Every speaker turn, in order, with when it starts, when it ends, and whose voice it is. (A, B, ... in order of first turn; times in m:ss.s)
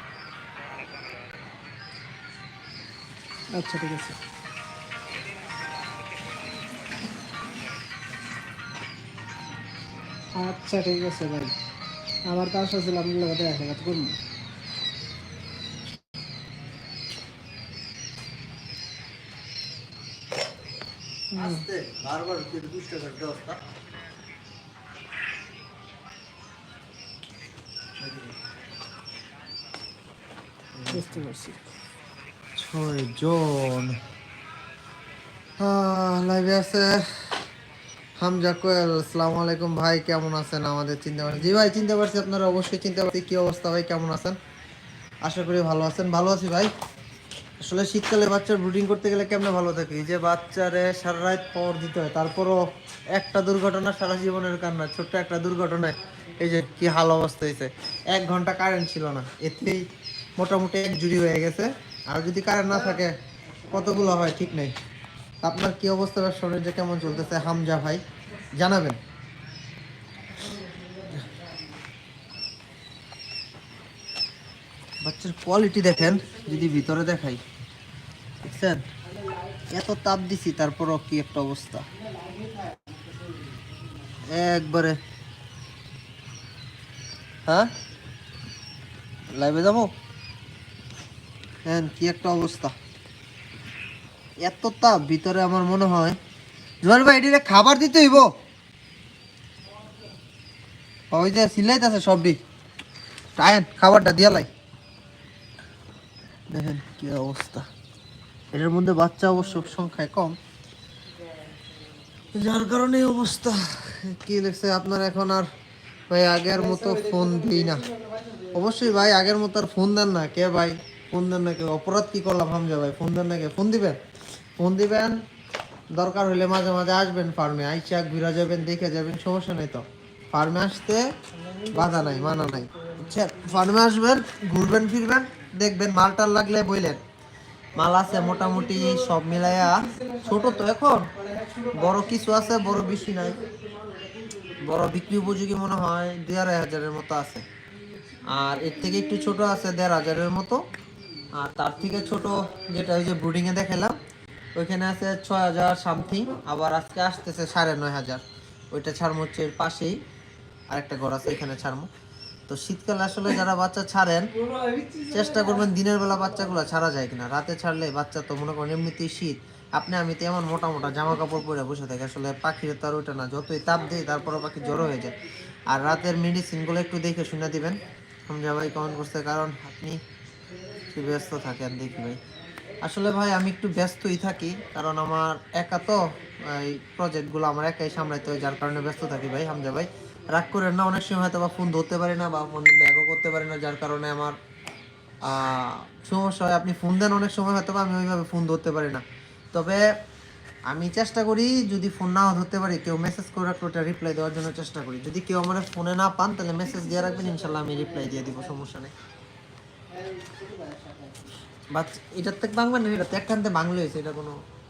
0:03.5-0:04.2 A
0:10.4-0:11.6 A
0:12.2-0:14.2 A
0:21.3-0:21.6 A
0:21.4-0:23.6 B
0:28.0-0:28.4 B
0:30.7-0:31.2 B
0:30.9-0:31.7 A
0:32.6-0:34.0 B
0:35.6-0:37.5 B
0:38.2-0:44.4 B
0:45.2-0:46.7 B
0:47.6-0:59.8 B
1:00.4-1:03.2 B
1:02.7-1:04.4 A
1:03.7-1:04.8 B
1:05.4-1:09.0 B
1:10.3-1:11.8 A
1:15.0-1:17.4 B
1:15.9-1:16.9 A
1:18.4-1:18.8 B
1:19.0-1:19.8 A
1:19.7-1:21.9 B
1:21.9-1:24.2 A
1:24.2-1:25.0 B
1:27.5-1:27.7 B
1:29.3-1:29.9 B
1:31.6-1:32.8 B
1:34.4-1:36.2 B
1:36.8-1:38.3 B
1:41.1-1:42.4 B
1:43.4-1:44.5 B
1:46.5-1:47.7 B
1:48.5-1:50.4 B
1:51.2-1:51.9 A
1:52.3-1:55.5 B
1:56.1-1:57.8 B
1:56.5-1:59.0 A
1:58.5-2:04.0 B
2:04.6-2:05.2 B
2:05.9-2:11.1 B
2:11.3-2:13.7 A
2:11.7-2:17.0 B
2:17.8-2:21.1 B
2:17.8-2:25.4 A
2:21.7-2:23.4 B
2:24.6-2:27.5 B
2:27.8-2:29.4 A
2:28.2-2:30.7 B
2:31.3-2:34.0 B
2:31.8-2:32.8 A
2:34.6-2:40.0 B
2:40.7-2:41.9 B
2:42.5-2:44.3 B
2:44.4-2:45.7 A
2:45.1-2:55.2 B
2:46.4-2:46.7 A
2:53.8-2:55.9 A
2:55.7-3:00.0 B
3:00.5-3:02.8 A
3:00.9-3:02.2 B
3:02.8-3:14.4 B
3:08.0-3:10.4 A
3:15.2-3:19.9 B
3:20.7-3:28.9 B
3:26.6-3:28.6 A
3:29.9-3:31.3 A
3:31.7-3:34.4 B